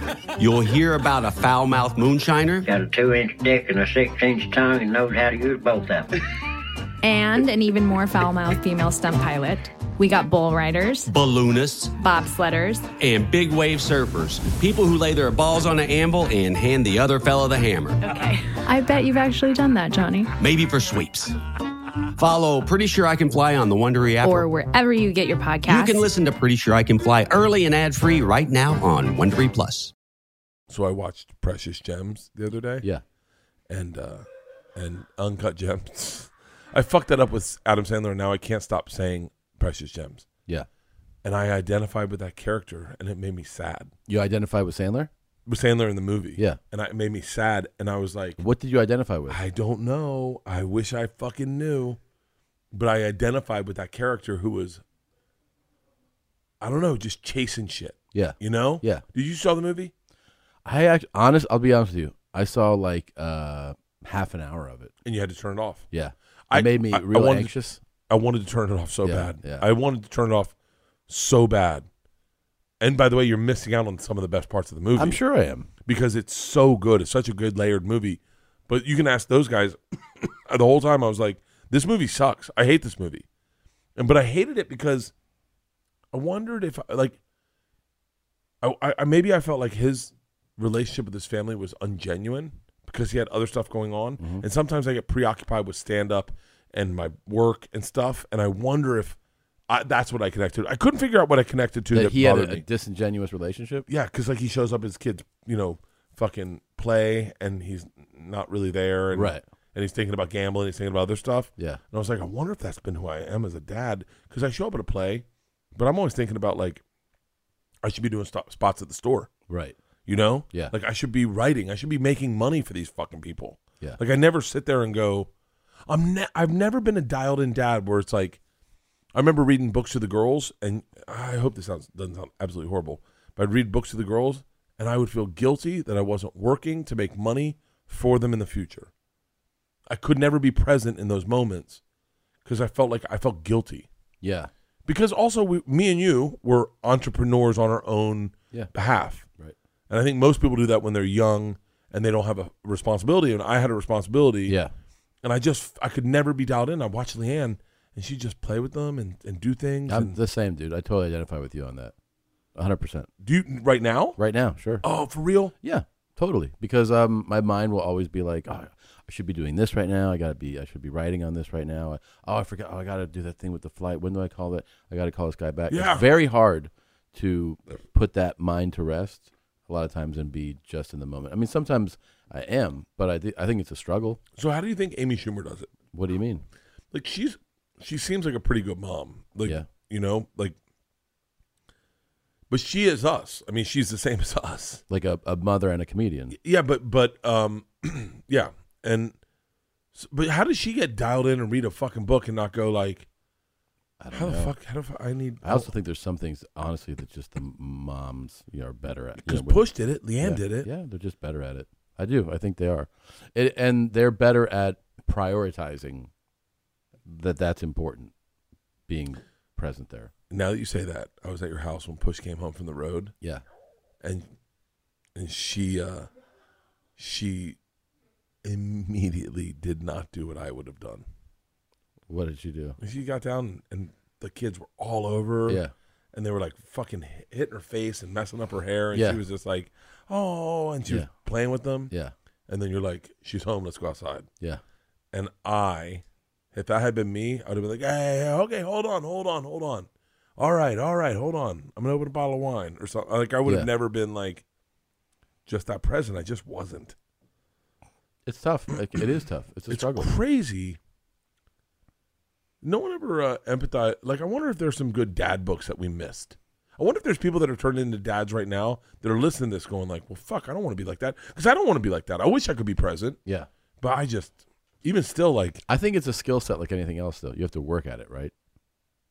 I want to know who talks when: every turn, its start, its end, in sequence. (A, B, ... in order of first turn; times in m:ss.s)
0:00.4-0:02.7 A
0:02.6-0:06.1 B
0:07.0-0:11.1 C
0:11.1-0:11.9 A
0:12.0-0:12.8 C
0:13.0-0:18.0 A
0:18.0-0:20.3 C
0:20.4-0:21.4 A
0:22.2-0:24.5 A
0:24.2-0:26.0 C
0:25.6-0:29.9 A
0:30.7-0:32.8 D
0:33.7-0:40.2 D
0:41.2-0:43.9 D
0:44.1-0:45.1 E
0:45.4-0:48.4 D
0:48.4-0:49.4 E
0:49.3-0:52.0 D
0:52.7-0:54.8 D
0:56.6-0:59.9 D
0:58.1-0:59.0 E
1:00.6-1:04.9 E
1:05.0-1:05.9 D
1:05.9-1:07.8 E
1:06.5-1:07.5 D
1:08.1-1:10.5 D
1:09.0-1:09.7 E
1:11.1-1:11.9 D
1:12.8-1:15.2 D
1:15.0-1:15.7 E
1:15.8-1:23.2 D
1:24.0-1:25.1 D
1:26.1-1:27.2 D
1:28.6-1:39.2 D
1:34.2-1:34.4 E
1:39.7-1:42.6 D
1:41.9-1:43.9 E
1:43.9-1:56.8 D
1:49.1-1:49.4 E
1:57.8-1:59.3 D
1:59.5-1:59.8 E
2:00.0-2:05.3 D
2:05.9-2:08.4 D
2:09.1-2:18.9 D
2:19.9-2:21.8 D
2:22.4-2:23.9 D
2:24.2-2:24.5 E
2:24.8-2:29.2 D
2:29.9-2:34.6 D
2:34.5-2:34.7 E
2:35.2-2:40.2 D
2:39.9-2:41.9 E
2:42.5-2:43.1 E
2:43.2-2:44.2 D
2:44.2-2:44.8 E
2:44.8-2:45.5 D
2:45.6-3:04.2 E
2:55.7-2:56.0 D
3:04.4-3:05.7 D
3:05.9-3:06.4 E
3:06.9-3:10.6 D
3:12.5-3:14.8 D
3:14.9-3:16.4 E
3:16.3-3:19.1 D
3:19.9-3:23.1 D
3:24.0-3:24.5 E
3:24.1-3:25.7 D
3:25.4-3:29.6 E
3:29.2-3:30.7 D
3:30.2-3:36.1 E
3:37.0-3:38.1 E
3:38.9-3:40.1 E
3:40.3-3:43.1 D
3:44.0-3:44.3 D
3:45.1-3:46.1 D
3:47.0-3:47.6 D
3:48.4-3:51.0 D
3:52.1-3:52.8 E
3:52.8-3:55.6 D
3:55.5-3:55.7 E
3:56.1-4:01.9 D
3:58.9-3:59.2 E
4:02.5-4:04.3 D
4:05.1-4:14.4 D
4:15.4-4:17.0 D
4:18.2-4:20.1 E
4:19.7-4:20.8 D
4:22.6-4:33.2 D
4:33.8-4:35.6 D
4:35.7-4:38.3 E